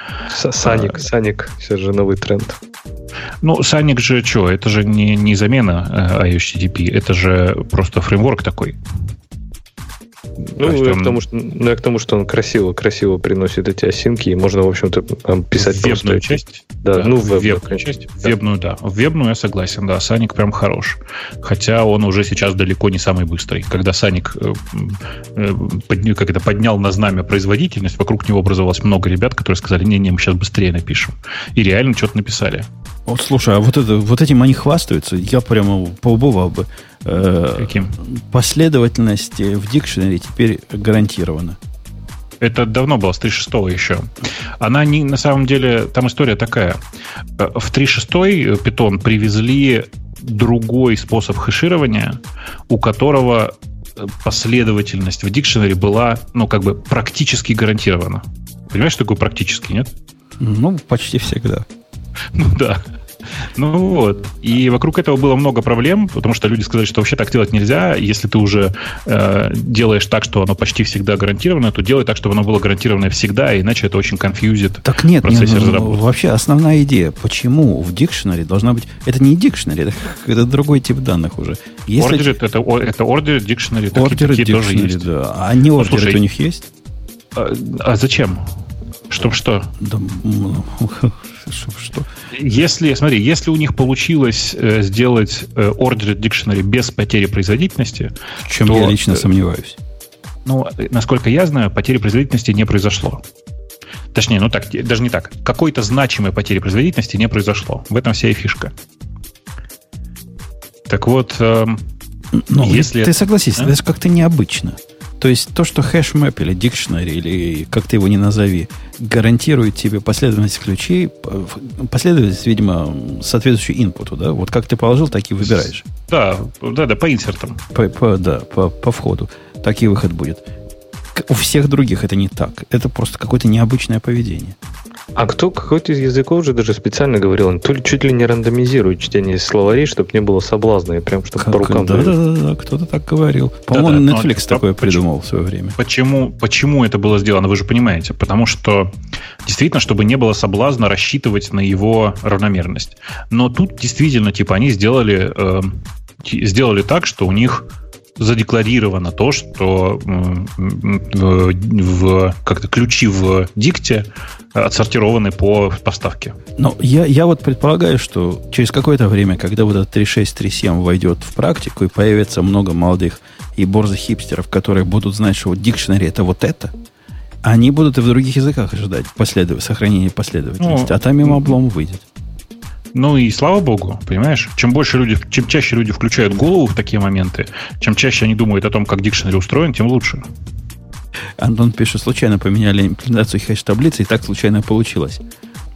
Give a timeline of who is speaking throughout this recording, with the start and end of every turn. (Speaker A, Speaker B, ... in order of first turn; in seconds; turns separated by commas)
Speaker A: 0.3-2.6, Speaker B: 0.6-1.1, Speaker B: 3.4-8.8, Speaker B: 10.6-11.2, Speaker A: 10.6-18.3, Speaker B: 15.5-32.7, Speaker C: 33.1-41.6, Speaker B: 37.6-38.0, Speaker B: 42.4-46.8, Speaker B: 47.4-59.9, Speaker C: 60.4-61.6, Speaker B: 62.3-62.9, Speaker B: 63.4-76.0, Speaker C: 74.8-82.3, Speaker B: 82.0-85.1, Speaker C: 83.9-86.7, Speaker B: 85.8-86.2, Speaker B: 87.3-88.4, Speaker B: 89.1-89.7, Speaker C: 89.8-92.1, Speaker B: 92.3-99.2, Speaker C: 98.4-99.8, Speaker B: 100.5-103.2, Speaker B: 104.1-108.7, Speaker B: 110.9-111.8, Speaker C: 112.3-125.8, Speaker B: 112.6-113.7, Speaker B: 125.4-127.6, Speaker C: 127.7-130.4, Speaker C: 131.1-134.6, Speaker A: 135.2-142.1, Speaker C: 141.4-145.8, Speaker B: 143.7-145.0, Speaker B: 145.8-148.9, Speaker B: 149.4-166.4, Speaker C: 166.6-176.7, Speaker C: 177.4-182.0, Speaker B: 180.6-181.6, Speaker B: 182.9-190.2, Speaker C: 191.4-195.2